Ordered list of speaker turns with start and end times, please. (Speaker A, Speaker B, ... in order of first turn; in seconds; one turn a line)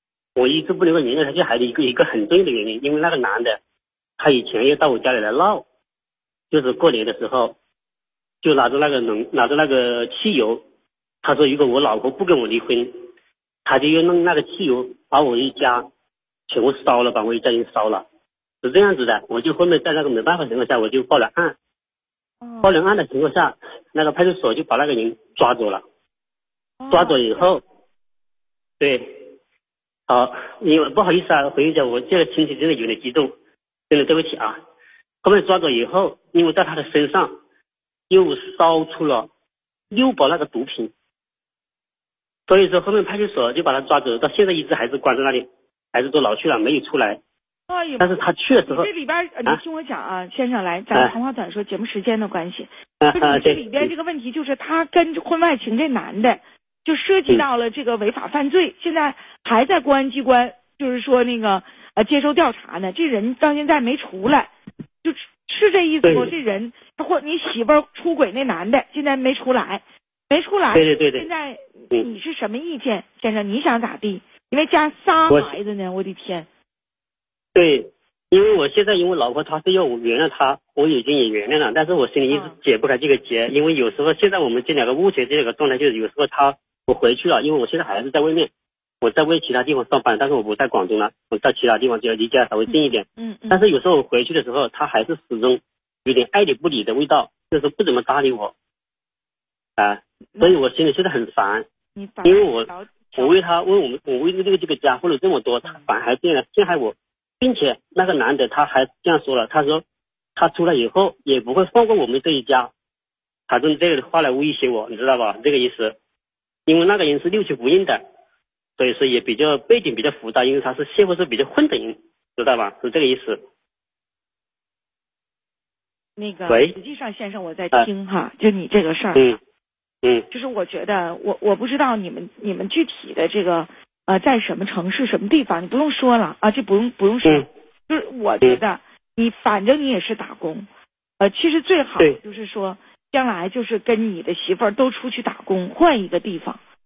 Speaker A: 0.3-3.6
Speaker A: 4.2-5.6
Speaker A: 6.5-7.5
Speaker A: 8.4-10.6
Speaker A: 11.2-12.9
Speaker A: 13.7-15.8
Speaker A: 16.5-18.0
Speaker A: 18.6-21.6
Speaker B: 22.4-22.7
Speaker A: 22.6-25.8
Speaker B: 26.8-27.4
Speaker A: 26.9-27.6
Speaker A: 28.8-29.1
Speaker A: 30.1-33.3
Speaker A: 33.9-34.6
Speaker A: 35.2-37.3
Speaker A: 38.1-39.3
Speaker A: 39.9-40.9
Speaker A: 42.5-47.2
Speaker B: 47.7-64.5
Speaker A: 48.0-48.9
Speaker A: 53.0-53.9
Speaker B: 65.0-76.5
Speaker A: 66.0-66.3
Speaker A: 70.7-71.3
Speaker A: 75.3-75.5
Speaker A: 77.5-98.5
Speaker B: 82.3-82.5
Speaker B: 92.7-93.6
Speaker A: 99.8-101.7
Speaker B: 100.3-100.6
Speaker B: 101.9-103.4
Speaker A: 102.2-109.8
Speaker A: 110.3-112.7
Speaker A: 113.5-116.0
Speaker A: 116.7-118.0
Speaker A: 118.8-123.4
Speaker B: 126.2-129.3
Speaker A: 126.5-126.8
Speaker B: 130.3-140.7
Speaker B: 141.2-146.6